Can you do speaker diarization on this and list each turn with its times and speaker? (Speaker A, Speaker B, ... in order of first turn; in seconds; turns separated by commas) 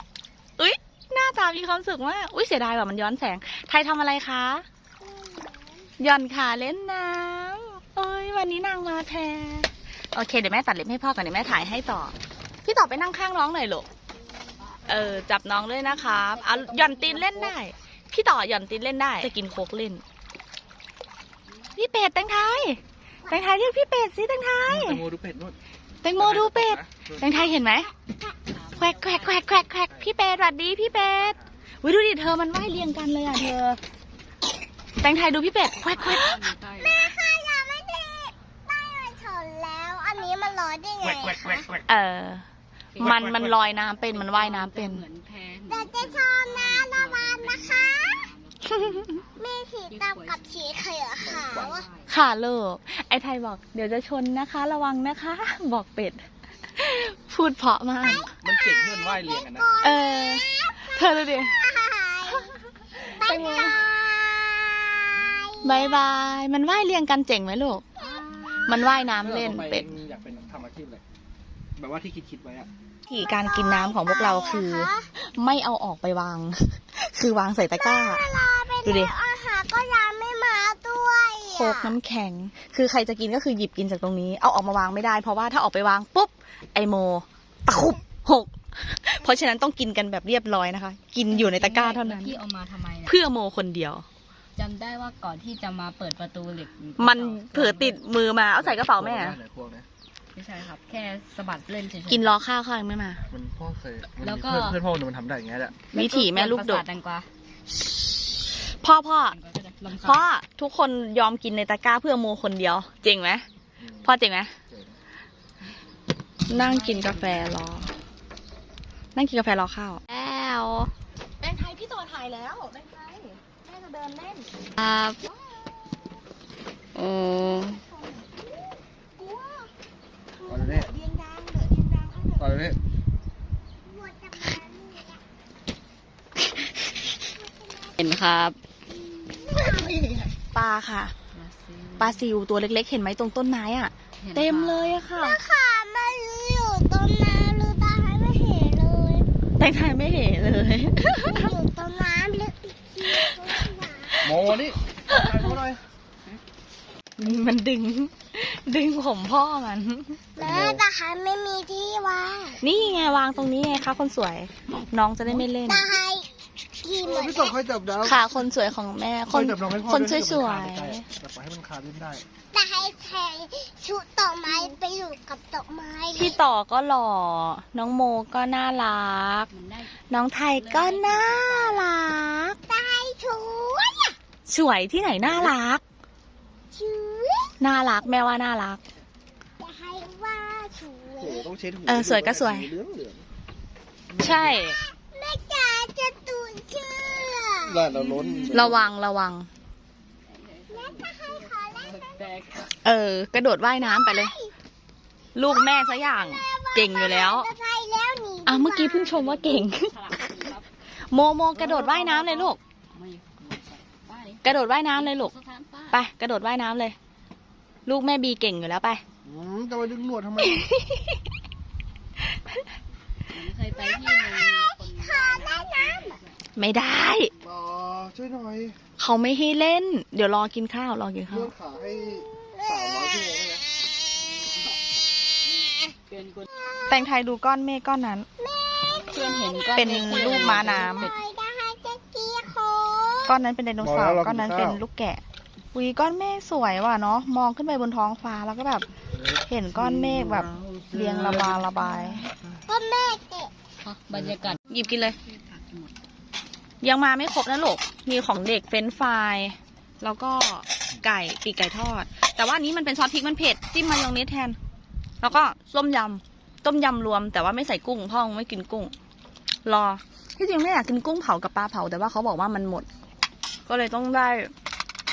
Speaker A: 0.6-4.6, Speaker B: 5.0-5.9, Speaker A: 6.0-12.1, Speaker A: 12.6-13.9, Speaker C: 14.6-15.1, Speaker A: 14.8-20.0, Speaker C: 16.1-17.6, Speaker A: 21.7-25.0, Speaker D: 24.7-25.6, Speaker A: 26.0-27.9, Speaker D: 26.1-27.4, Speaker B: 27.4-28.3, Speaker C: 28.4-29.7, Speaker A: 28.8-33.8, Speaker D: 29.8-31.5, Speaker A: 35.0-36.5, Speaker C: 35.8-37.1, Speaker B: 36.8-41.8, Speaker A: 41.9-42.4, Speaker C: 42.9-49.3, Speaker A: 43.0-45.0, Speaker B: 45.7-48.2, Speaker B: 49.4-51.9, Speaker C: 49.9-52.1, Speaker D: 51.3-51.7, Speaker A: 52.1-56.2, Speaker A: 56.7-58.2, Speaker D: 58.0-59.7, Speaker B: 58.5-66.1, Speaker A: 59.8-61.6, Speaker A: 63.0-63.8, Speaker A: 65.6-67.8, Speaker B: 68.0-69.1, Speaker A: 68.7-69.9, Speaker D: 69.2-71.0, Speaker D: 71.8-72.7, Speaker B: 73.1-75.1, Speaker A: 73.1-78.3, Speaker B: 77.7-81.9, Speaker A: 78.8-79.1, Speaker A: 81.5-92.4, Speaker C: 91.3-93.2, Speaker A: 93.0-94.0, Speaker C: 94.5-98.0, Speaker A: 97.0-99.4, Speaker D: 98.6-99.8, Speaker C: 100.3-102.4, Speaker A: 102.1-103.2, Speaker D: 103.3-105.8, Speaker C: 104.2-104.8, Speaker C: 105.9-107.3, Speaker A: 105.9-106.8, Speaker A: 108.6-109.4, Speaker C: 109.3-110.3, Speaker A: 109.9-113.4, Speaker D: 113.8-114.1, Speaker A: 114.0-114.5, Speaker D: 114.7-115.0, Speaker C: 116.5-117.6, Speaker A: 116.5-117.9, Speaker A: 119.1-120.0, Speaker C: 120.1-120.9, Speaker A: 121.4-124.5, Speaker C: 124.8-125.2, Speaker B: 125.2-125.6, Speaker C: 126.9-127.8, Speaker B: 127.8-128.5, Speaker B: 129.2-129.7, Speaker B: 130.4-132.6, Speaker D: 130.5-130.9, Speaker A: 131.4-131.9, Speaker D: 132.4-132.8, Speaker B: 133.8-135.2, Speaker B: 137.3-138.0, Speaker C: 138.0-138.6, Speaker B: 139.0-140.3, Speaker A: 139.7-141.1, Speaker C: 141.3-142.3, Speaker A: 142.0-145.4, Speaker C: 144.2-145.0, Speaker B: 145.1-149.3, Speaker A: 149.6-151.5, Speaker B: 151.0-154.5, Speaker D: 154.2-155.8, Speaker A: 155.1-155.3, Speaker A: 157.2-160.2, Speaker B: 160.3-162.7, Speaker D: 160.4-160.8, Speaker A: 162.6-165.9, Speaker C: 162.9-163.8, Speaker B: 165.6-167.6, Speaker D: 167.2-168.2, Speaker A: 167.9-171.1, Speaker D: 169.3-172.2, Speaker B: 172.5-176.4, Speaker A: 176.1-179.5, Speaker C: 179.5-181.8, Speaker A: 180.1-182.6, Speaker B: 182.6-184.2, Speaker A: 184.5-185.8, Speaker D: 185.2-185.5, Speaker B: 186.7-187.6, Speaker A: 187.6-188.8, Speaker B: 189.6-191.5, Speaker D: 191.2-193.2, Speaker A: 191.8-192.7, Speaker D: 194.2-194.6, Speaker A: 194.2-194.8, Speaker B: 194.6-197.9, Speaker D: 197.7-198.8, Speaker C: 197.8-198.7, Speaker A: 198.5-199.5, Speaker C: 200.2-202.7, Speaker B: 200.7-202.3, Speaker A: 202.8-204.3, Speaker B: 203.8-204.5, Speaker A: 205.3-207.5, Speaker B: 205.4-209.2, Speaker A: 208.4-209.9, Speaker C: 209.0-210.7, Speaker A: 211.1-212.6, Speaker C: 211.5-216.0, Speaker A: 214.4-215.3, Speaker A: 215.9-216.9, Speaker A: 217.8-219.0, Speaker D: 219.3-220.5, Speaker A: 220.4-221.2, Speaker C: 223.3-226.4, Speaker B: 223.7-226.2, Speaker A: 226.6-227.3, Speaker D: 227.8-228.7, Speaker A: 229.0-231.5, Speaker B: 231.8-233.7, Speaker C: 234.4-234.8, Speaker C: 236.1-236.5, Speaker B: 236.6-237.0, Speaker A: 236.9-238.2, Speaker B: 238.4-243.4, Speaker C: 239.0-241.1, Speaker A: 239.7-241.1, Speaker A: 243.3-245.2, Speaker D: 243.8-244.8, Speaker A: 245.7-252.2, Speaker D: 249.8-251.7, Speaker B: 252.7-253.5, Speaker C: 253.8-255.9, Speaker A: 254.7-255.2, Speaker A: 256.8-264.6, Speaker A: 265.2-268.9, Speaker A: 269.6-272.9, Speaker A: 273.7-274.5